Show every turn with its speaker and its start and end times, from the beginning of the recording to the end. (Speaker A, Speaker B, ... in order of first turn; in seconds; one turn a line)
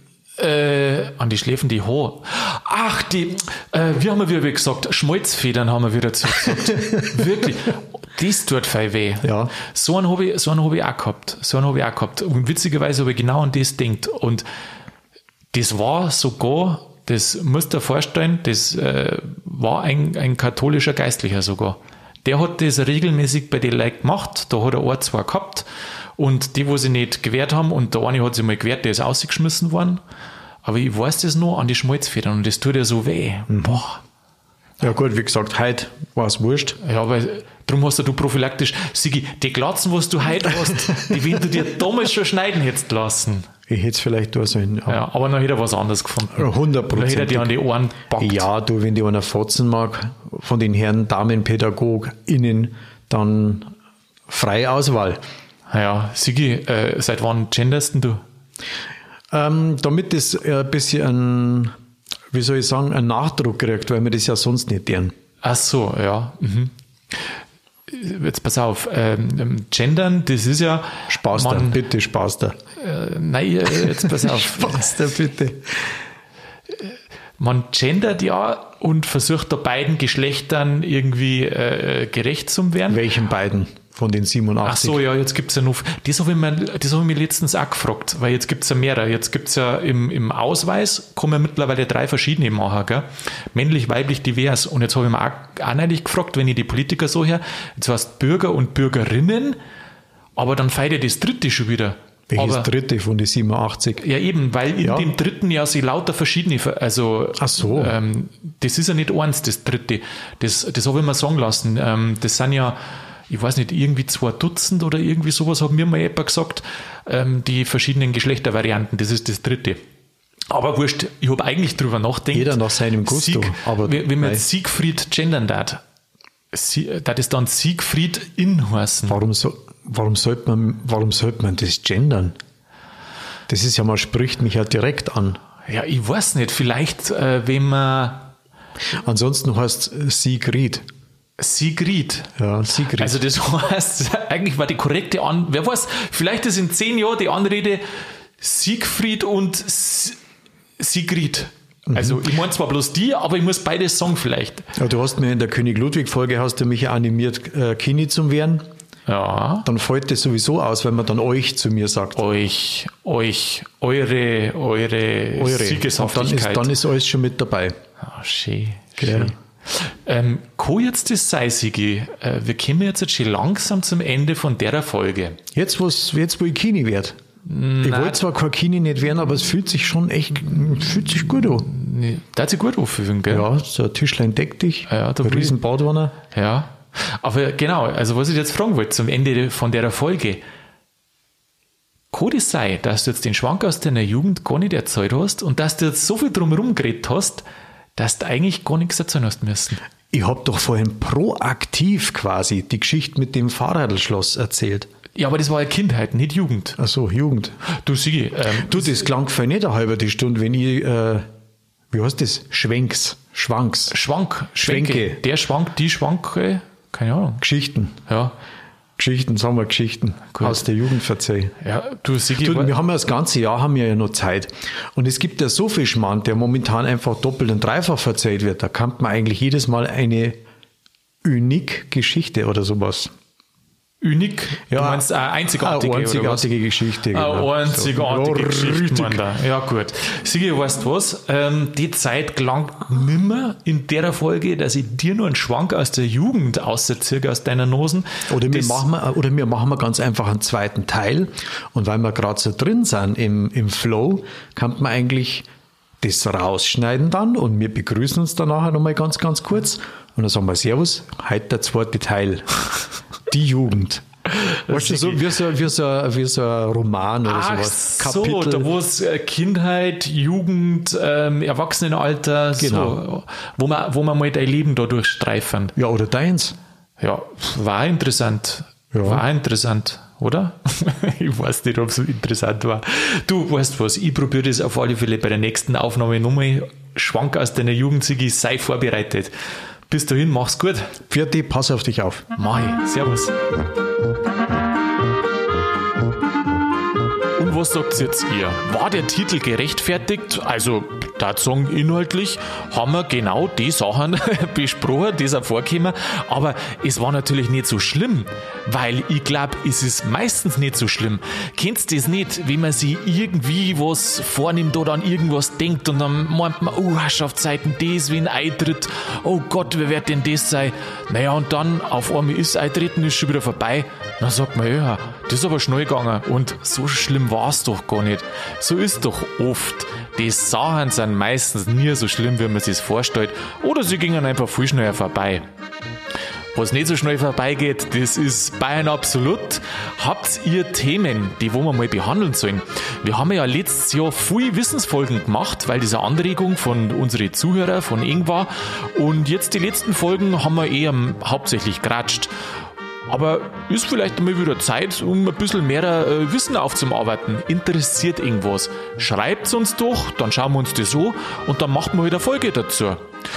Speaker A: 0.4-14.4
Speaker B: 6.5-7.1
Speaker B: 9.2-9.5
Speaker A: 15.5-25.6
Speaker A: 26.2-30.0
Speaker A: 30.6-34.0
Speaker B: 33.5-33.8
Speaker B: 34.8-36.8
Speaker A: 36.8-43.5
Speaker B: 40.5-41.2
Speaker B: 43.7-45.0
Speaker A: 44.9-48.5
Speaker B: 46.4-47.5
Speaker B: 48.2-53.7
Speaker B: 54.3-55.2
Speaker A: 55.7-58.2
Speaker B: 59.3-61.7
Speaker B: 62.3-65.1
Speaker A: 65.4-71.8
Speaker B: 71.1-72.6
Speaker A: 72.8-75.0
Speaker B: 73.8-75.9
Speaker A: 76.7-83.0
Speaker B: 82.9-85.0
Speaker A: 84.6-99.6
Speaker A: 100.4-102.7
Speaker B: 102.3-104.0
Speaker A: 104.0-119.8
Speaker B: 104.8-105.1
Speaker B: 107.4-108.0
Speaker A: 120.5-125.8
Speaker B: 122.3-124.4
Speaker A: 126.5-129.2
Speaker B: 129.1-132.3
Speaker B: 133.5-135.4
Speaker A: 135.7-138.3
Speaker B: 138.9-140.8
Speaker A: 141.4-142.3
Speaker B: 142.4-143.2
Speaker A: 142.9-147.8
Speaker A: 148.4-150.2
Speaker A: 150.8-154.7
Speaker B: 151.9-152.2
Speaker B: 154.7-158.7
Speaker A: 159.1-159.7
Speaker B: 159.6-162.2
Speaker A: 162.2-166.7
Speaker B: 165.3-167.7
Speaker A: 168.0-175.4
Speaker B: 169.0-169.3
Speaker B: 175.5-177.2
Speaker A: 177.4-178.2
Speaker B: 177.8-181.7
Speaker A: 181.2-183.5
Speaker B: 183.3-186.1
Speaker A: 184.9-185.6
Speaker A: 186.3-190.4
Speaker A: 192.1-197.4
Speaker A: 197.9-199.8
Speaker B: 200.1-204.9
Speaker A: 205.2-206.8
Speaker B: 206.8-207.6
Speaker A: 207.7-209.0
Speaker B: 208.5-211.2
Speaker B: 211.9-214.0
Speaker A: 213.9-217.4
Speaker B: 214.6-215.2
Speaker B: 217.4-218.0
Speaker A: 218.1-218.3
Speaker B: 219.0-221.5
Speaker A: 220.3-220.6
Speaker A: 221.6-222.7
Speaker B: 222.4-230.4
Speaker B: 231.2-233.1
Speaker A: 234.0-236.5
Speaker B: 234.7-239.2
Speaker A: 237.1-248.9
Speaker B: 248.3-255.5
Speaker B: 256.0-262.7
Speaker B: 263.3-264.0
Speaker A: 264.3-265.3
Speaker B: 264.7-268.7
Speaker A: 267.2-275.7
Speaker B: 272.6-273.0
Speaker B: 275.8-276.6
Speaker A: 277.0-289.3
Speaker B: 278.9-279.2
Speaker A: 289.9-290.9
Speaker B: 291.1-292.2
Speaker A: 292.4-293.4
Speaker A: 297.4-335.4
Speaker A: 336.5-352.3
Speaker A: 353.1-363.1